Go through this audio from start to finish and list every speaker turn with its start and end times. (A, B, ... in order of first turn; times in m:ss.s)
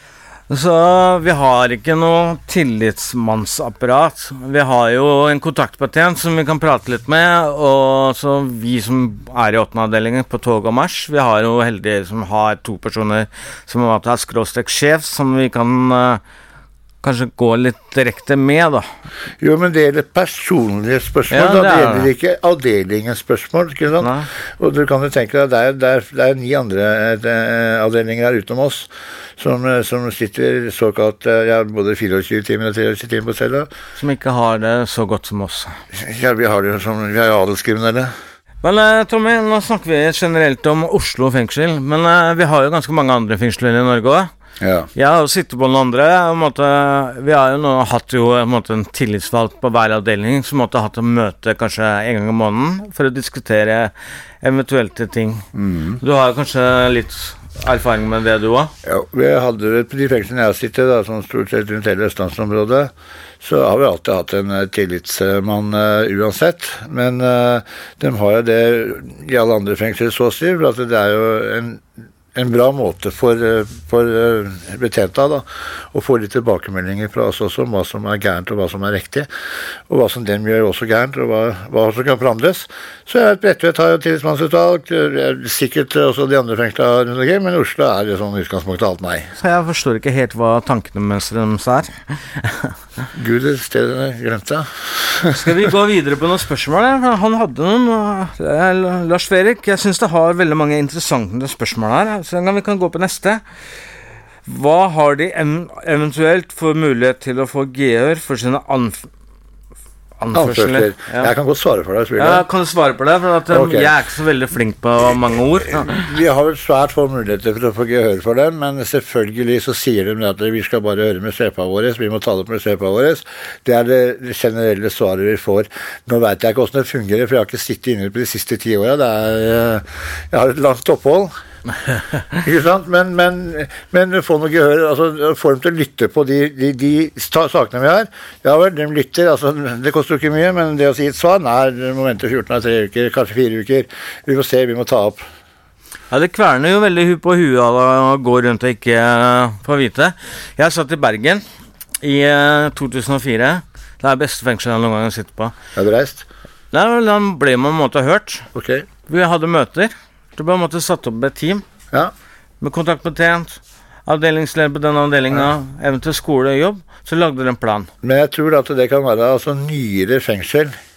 0:00.5-0:16.2 A
0:17.0-0:18.9 A
0:19.4-0:33.7 B
0:21.3-0:22.1 A
0:24.0-0:24.3 A
0:34.0-0:35.7 A
0:36.0-0:38.1 B
0:38.6-0:44.3 A
0:44.6-0:44.9 B
0:45.0-0:55.4 A
0:55.6-0:56.0 B
0:56.0-0:58.7 A
0:58.9-1:19.3 B
1:19.9-1:29.3 B
1:29.4-1:32.7 A
1:33.2-1:34.7 B
1:35.3-1:43.4 A
1:44.5-1:49.1 A
1:50.2-1:51.3 A
1:50.3-1:52.4 B
1:52.2-1:56.0 A
1:53.5-1:54.0 B
1:55.7-2:11.3 B
2:12.4-2:25.2 B
2:26.1-2:31.4 A
2:32.0-2:35.6 A
2:35.8-2:36.2 B
2:36.7-2:38.5 A
2:38.6-2:38.9 B
2:39.1-2:41.6 A
2:42.6-2:47.9 A
2:48.0-2:50.8 B